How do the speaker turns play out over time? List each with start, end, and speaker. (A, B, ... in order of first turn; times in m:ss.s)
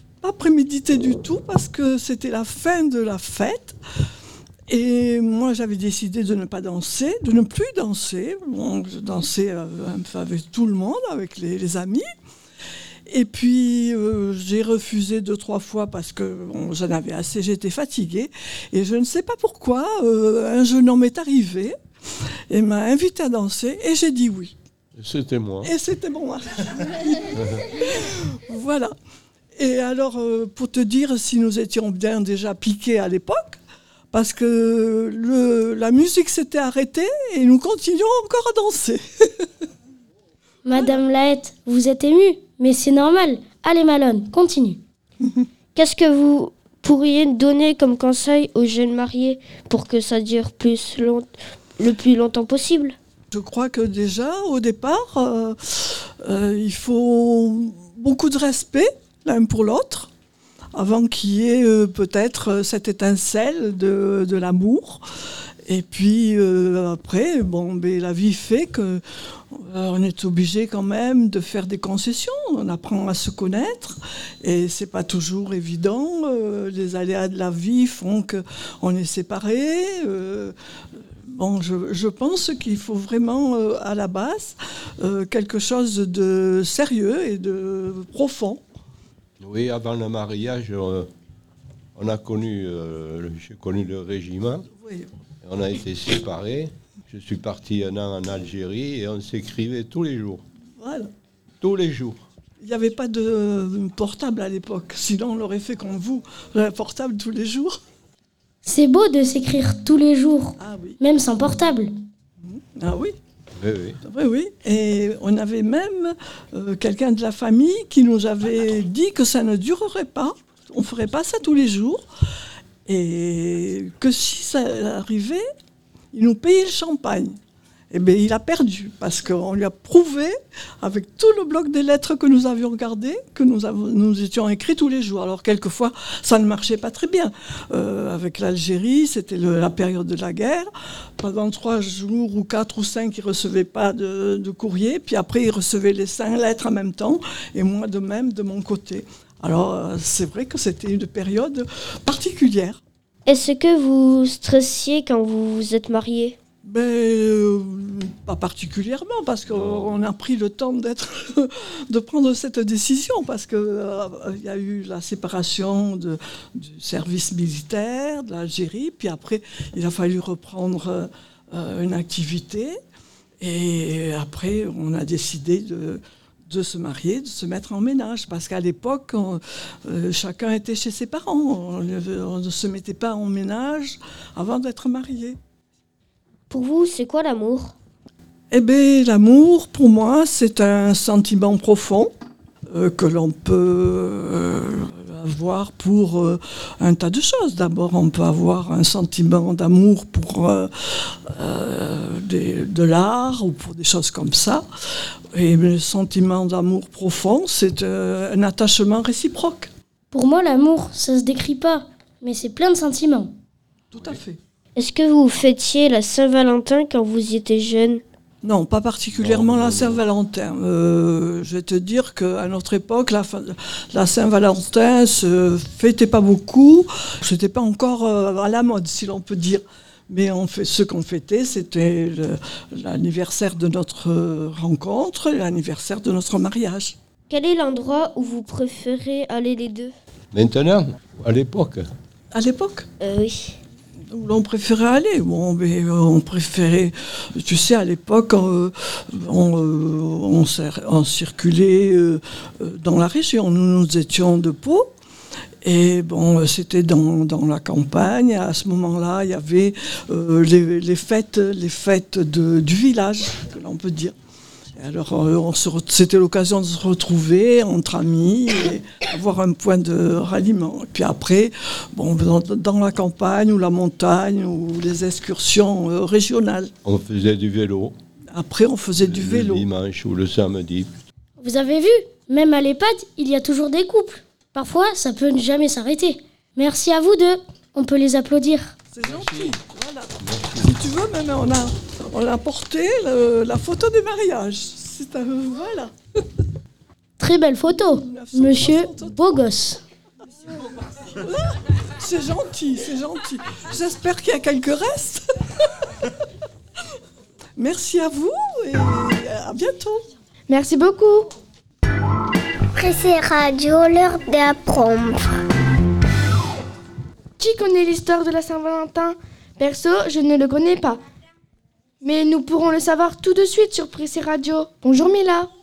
0:00.2-0:03.8 A
0:04.7-0:12.0 A
0:13.1-0:21.7 A
0:22.5-0:24.5 A
0:25.0-0:25.7 B
0:25.6-0:28.9 A
0:29.6-0:33.6 A
0:34.1-0:39.5 A
0:40.6-0:44.8 C
0:45.7-0:51.3 D
0:51.8-0:53.0 D
0:53.3-1:00.1 A
1:00.7-1:05.0 A
1:05.6-1:20.5 A
1:21.2-1:28.6 A
1:29.4-1:31.1 B
1:32.0-1:34.6 B
1:34.8-1:35.1 A
1:35.4-1:40.4 B
1:40.8-1:41.1 A
1:41.6-1:42.2 B
1:42.6-1:47.8 A
1:48.6-1:51.9 C
1:50.6-1:51.0 A
1:52.4-1:53.2 A
1:53.6-1:54.0 B
1:54.0-2:02.0 A
2:02.8-2:05.4 A
2:06.1-2:07.4 A
2:07.9-2:32.8 A
2:33.2-2:36.4 D
2:36.6-2:52.8 A
2:39.5-2:39.9 B
2:53.4-3:05.4 A
3:06.5-3:07.7 D
3:08.5-3:12.1 A
3:12.7-3:24.6 A
3:25.3-3:29.7 A
3:30.1-3:33.3 C
3:33.9-3:34.4 A
3:34.8-3:38.0 D
3:38.4-3:57.0 A
3:39.1-3:40.0 B
3:57.3-3:59.9 D
4:00.3-4:01.9 B
4:02.3-4:02.9 A
4:03.0-4:03.6 D
4:04.1-4:14.9 A
4:15.6-4:24.1 A
4:24.7-4:36.7 A
4:36.8-4:37.9 B
4:38.3-4:39.6 A
4:39.0-4:40.9 B
4:41.4-4:48.7 C
4:48.9-4:55.9 A
4:49.0-4:49.6 B
4:50.2-4:50.7 B
4:57.2-4:59.8 C
4:58.0-4:59.2 A
5:01.2-5:05.8 A
5:07.6-5:10.0 A
5:10.5-5:11.3 E
5:12.8-5:15.3 F
5:17.4-5:21.0 E
5:22.0-5:25.5 E